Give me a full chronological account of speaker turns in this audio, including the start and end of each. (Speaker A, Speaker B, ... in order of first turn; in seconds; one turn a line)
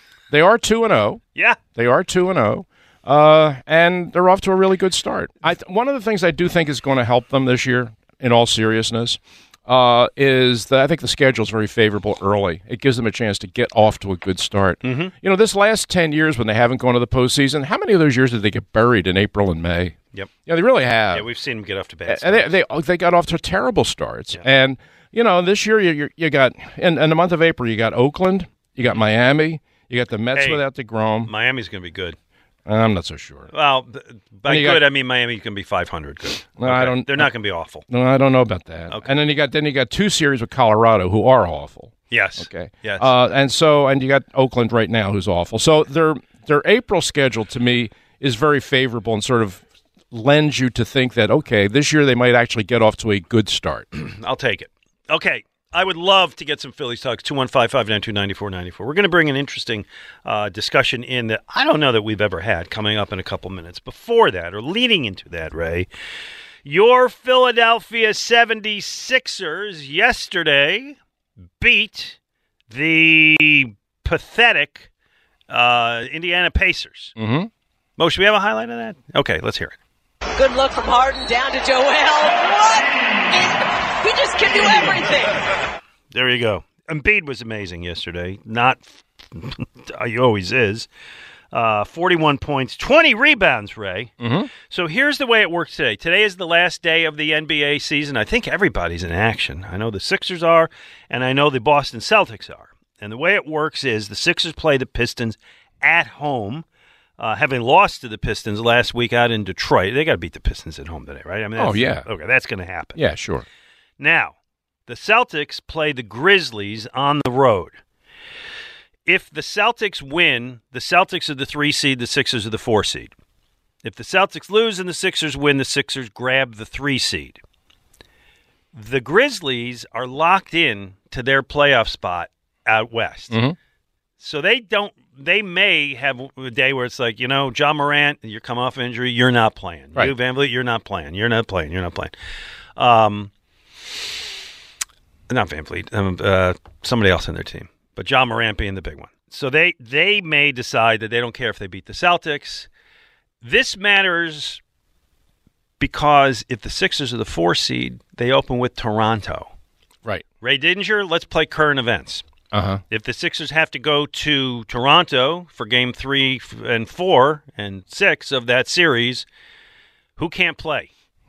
Speaker A: 0.3-1.2
Speaker A: 1.7-21.2
Speaker B: 14.8-15.1
Speaker B: 21.1-22.5
Speaker A: 22.1-31.3
Speaker B: 30.3-30.6
Speaker B: 31.2-32.2
Speaker A: 32.6-33.5
Speaker B: 33.5-37.8
Speaker A: 34.5-34.8
Speaker A: 36.6-37.3
Speaker A: 37.8-53.9
Speaker B: 42.1-43.1
Speaker B: 53.9-65.9
Speaker B: 66.6-71.0
Speaker B: 71.6-72.2
Speaker B: 72.7-74.9
Speaker B: 75.5-77.1
Speaker A: 77.2-77.5
Speaker B: 78.0-79.8
Speaker C: 80.3-85.3
Speaker B: 86.1-90.9
Speaker B: 91.5-106.7
Speaker A: 94.2-94.5
Speaker B: 107.2-113.0
Speaker A: 111.6-112.1
Speaker A: 112.9-113.4
Speaker B: 114.0-114.3
Speaker B: 114.9-117.8
Speaker B: 119.1-123.1
Speaker B: 123.8-127.4
Speaker B: 128.7-133.3
Speaker A: 133.3-133.6
Speaker B: 134.2-142.1
Speaker B: 142.8-143.3
Speaker B: 145.3-152.7
Speaker B: 153.4-154.6
Speaker B: 155.8-159.5
Speaker B: 160.4-162.2
Speaker A: 162.5-162.8
Speaker B: 162.9-169.2
Speaker B: 170.2-170.9